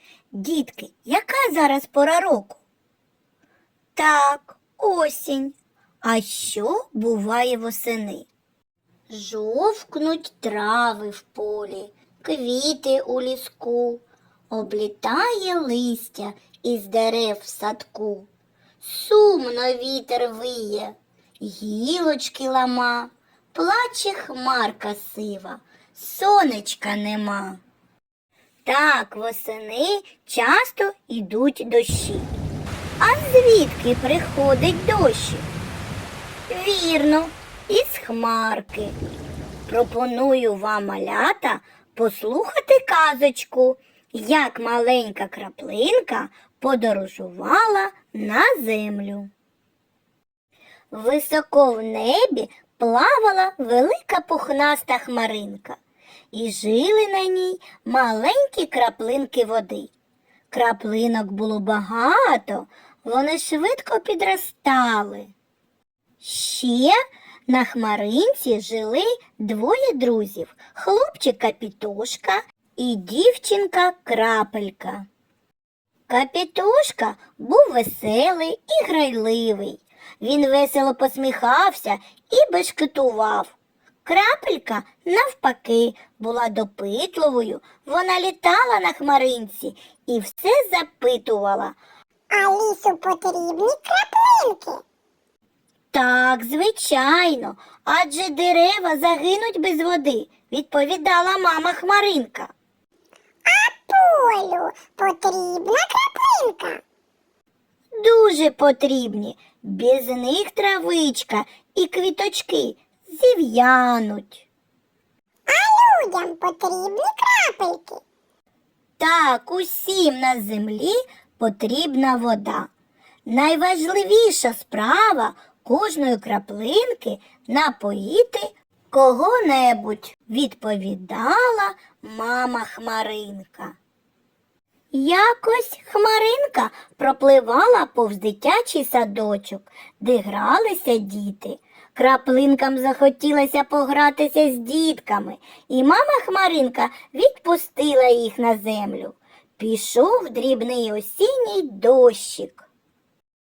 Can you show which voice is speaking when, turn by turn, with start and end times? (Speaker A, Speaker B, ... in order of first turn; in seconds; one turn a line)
Speaker A: 0.3-2.6
Speaker A: 4.0-8.3
Speaker A: 9.1-18.3
Speaker A: 18.8-27.6
Speaker A: 28.6-32.3
Speaker A: 33.0-35.5
Speaker A: 36.5-39.0
Speaker A: 39.7-49.3
Speaker A: 50.9-55.8
Speaker A: 56.3-59.9
Speaker A: 60.5-65.3
Speaker A: 66.2-67.0
Speaker A: 67.5-75.0
Speaker A: 76.1-91.8
Speaker B: 92.3-94.8
Speaker A: 95.9-102.5
Speaker B: 103.5-106.8
Speaker A: 108.0-114.5
Speaker B: 115.5-118.0
Speaker A: 119.0-122.7
Speaker A: 123.3-133.8
Speaker A: 134.9-152.7